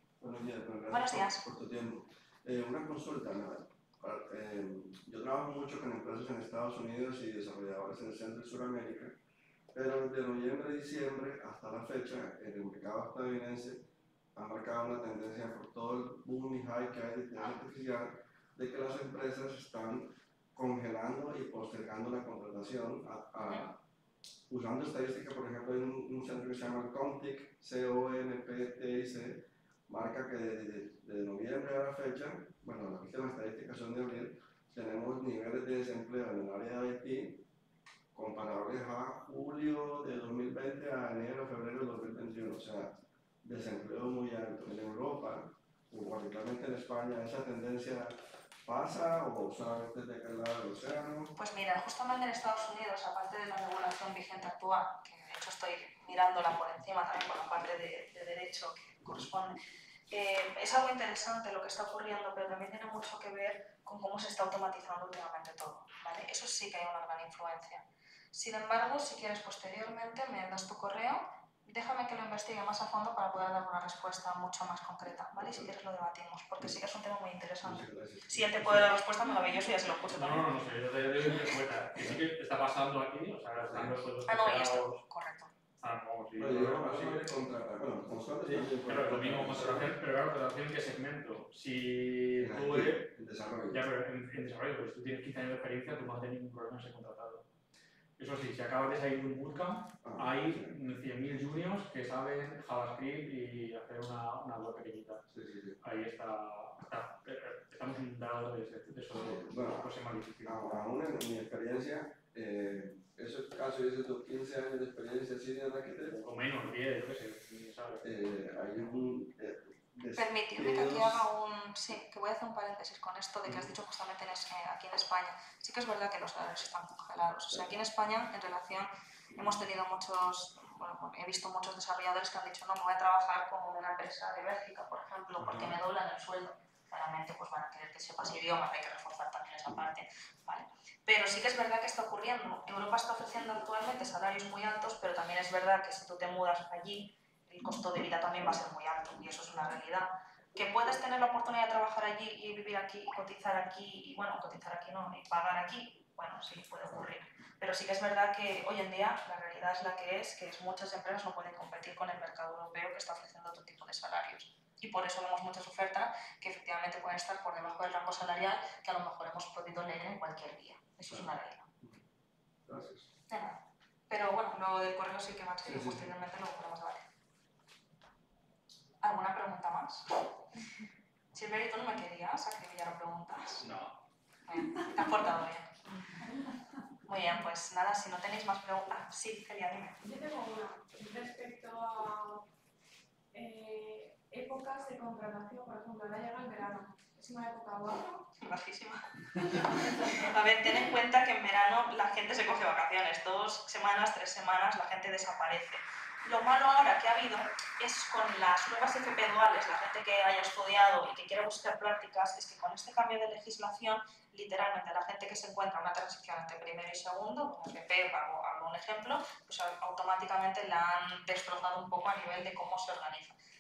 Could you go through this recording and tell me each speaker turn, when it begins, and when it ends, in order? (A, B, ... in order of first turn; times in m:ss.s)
0:00.2-0:09.2 A
0:00.9-0:01.4 B
0:09.7-0:13.8 A
0:14.4-0:23.8 A
0:23.5-0:23.7 B
0:24.5-0:37.4 A
0:38.1-0:42.9 A
0:43.4-0:48.1 A
0:48.7-0:51.3 A
0:51.4-0:59.6 B
1:00.1-1:20.5 B
1:17.6-1:18.9 A
1:20.1-1:25.0 C
1:23.6-1:24.0 A
1:24.3-1:25.5 B
1:25.8-1:27.5 C
1:26.4-1:30.0 A
1:28.4-1:33.1 C
1:32.4-1:33.8 A
1:33.7-1:37.4 C
1:38.2-1:45.2 C
1:40.0-1:40.8 A
1:45.3-1:45.8 A
1:45.8-1:50.9 C
1:49.1-1:49.9 A
1:50.4-1:56.2 A
1:56.1-1:58.0 C
1:58.0-2:01.3 A
2:00.2-2:51.7 B
2:15.4-2:15.8 A
2:51.1-2:52.0 A
2:52.7-2:53.1 A
2:53.3-2:57.1 B
2:55.6-2:56.1 A
2:59.0-3:00.3 B
3:01.3-3:03.7 B
3:03.6-3:04.0 C
3:04.5-3:06.1 B
3:07.1-3:10.0 B
3:10.0-3:12.5 D
3:13.3-3:18.3 D
3:18.4-3:43.4 B
3:19.5-3:20.3 D